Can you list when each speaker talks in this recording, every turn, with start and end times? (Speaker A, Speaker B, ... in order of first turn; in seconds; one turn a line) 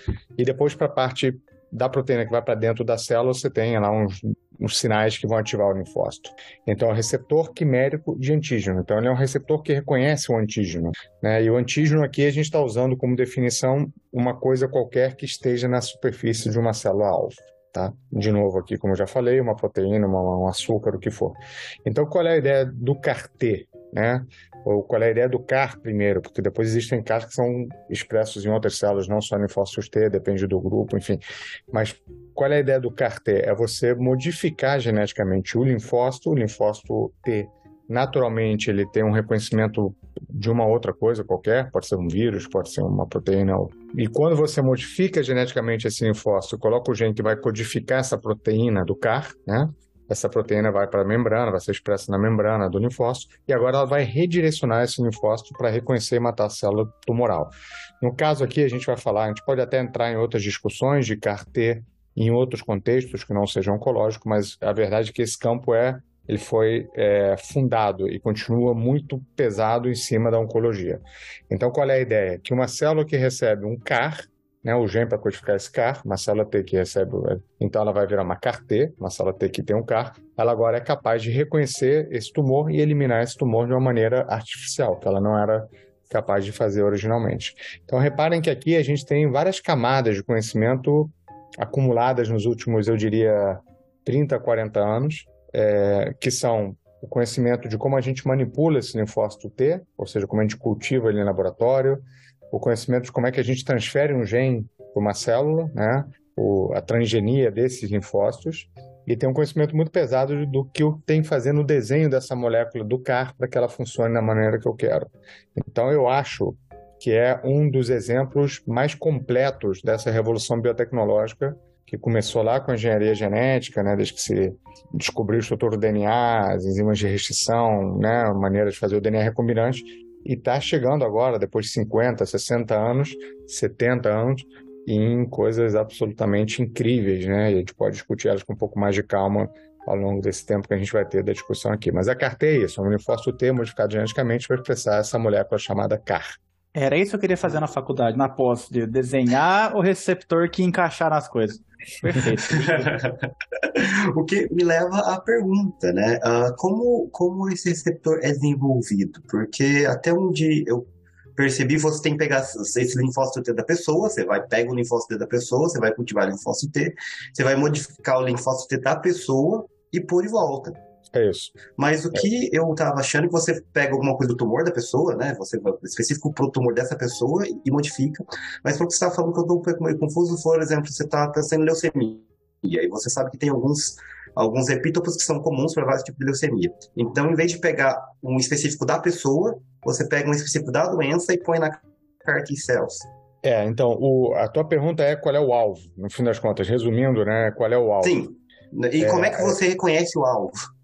Speaker A: 0.4-146.4
Speaker B: 146.8-152.9
Speaker C: 152.5-160.9
Speaker C: 161.4-170.8
Speaker A: 171.1-171.6
Speaker C: 171.8-193.1
Speaker A: 193.4-198.2
Speaker C: 198.0-200.6
Speaker A: 199.0-199.6